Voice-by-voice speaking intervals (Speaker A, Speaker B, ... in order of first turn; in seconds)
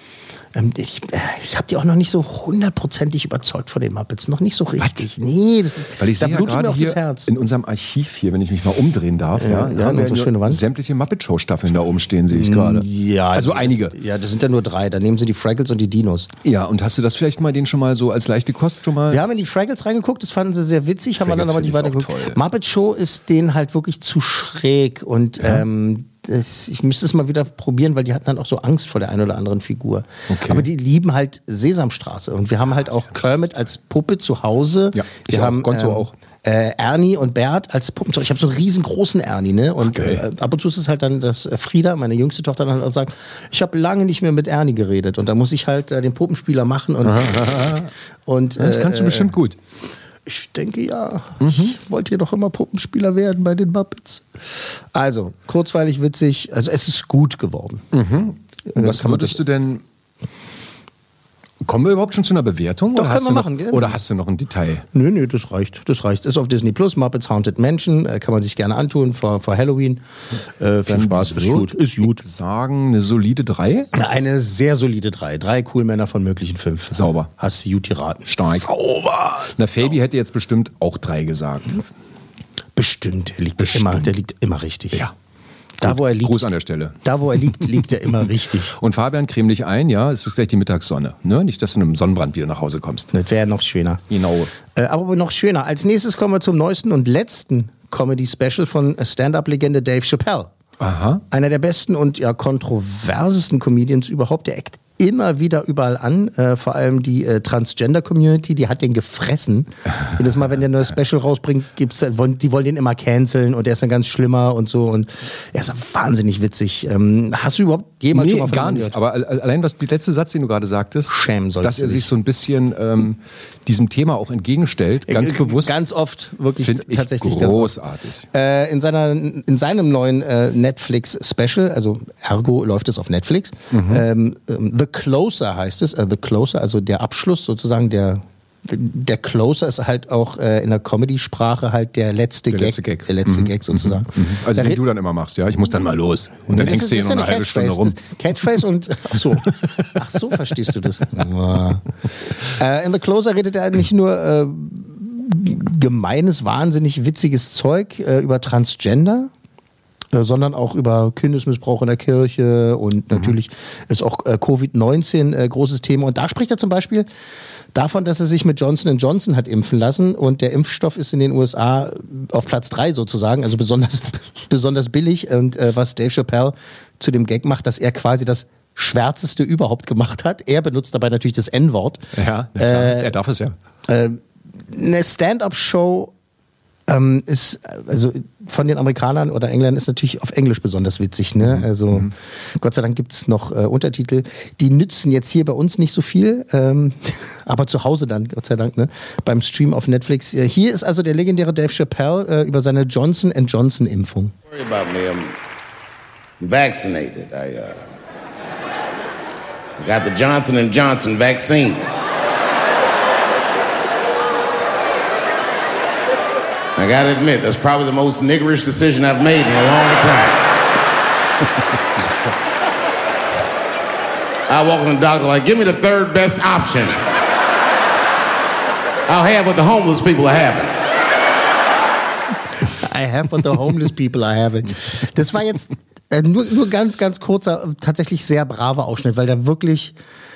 Speaker A: 0.5-7.3, 9.3-10.6, 12.3-16.3, 19.1-49.3, 50.2-57.9, 58.7-59.4, 62.9-64.0, 64.9-70.0, 70.6-72.2, 73.9-79.7, 82.8-85.0, 85.8-86.5, 87.0-88.8, 93.1-94.0, 94.7-100.5, 101.3-119.0, 121.1-122.1, 125.1-127.7, 128.3-144.8, 146.5-151.9, 152.4-159.3, 160.1-167.1, 167.7-183.1, 183.9-186.1, 186.9-204.3, 232.6-239.9
Speaker B: 4.8-5.0, 6.0-13.9, 16.4-19.2, 21.2-22.4, 30.3-30.6, 34.9-36.1, 39.8-40.2, 47.0-47.8, 48.6-49.5, 51.4-51.7, 57.9-59.8, 61.6-64.8, 70.9-73.9, 76.9-77.3, 78.2-78.7, 79.5-81.8, 83.6-84.1, 85.8-87.6, 88.8-93.1, 94.1-94.5, 100.8-101.2, 118.1-125.8, 126.6-128.3, 133.7-134.0, 142.5-148.0, 182.2-183.5, 191.4-192.1
Speaker C: 204.4-205.3, 206.4-207.8, 209.8-211.8, 216.8-220.6, 224.5-227.0, 229.1-230.8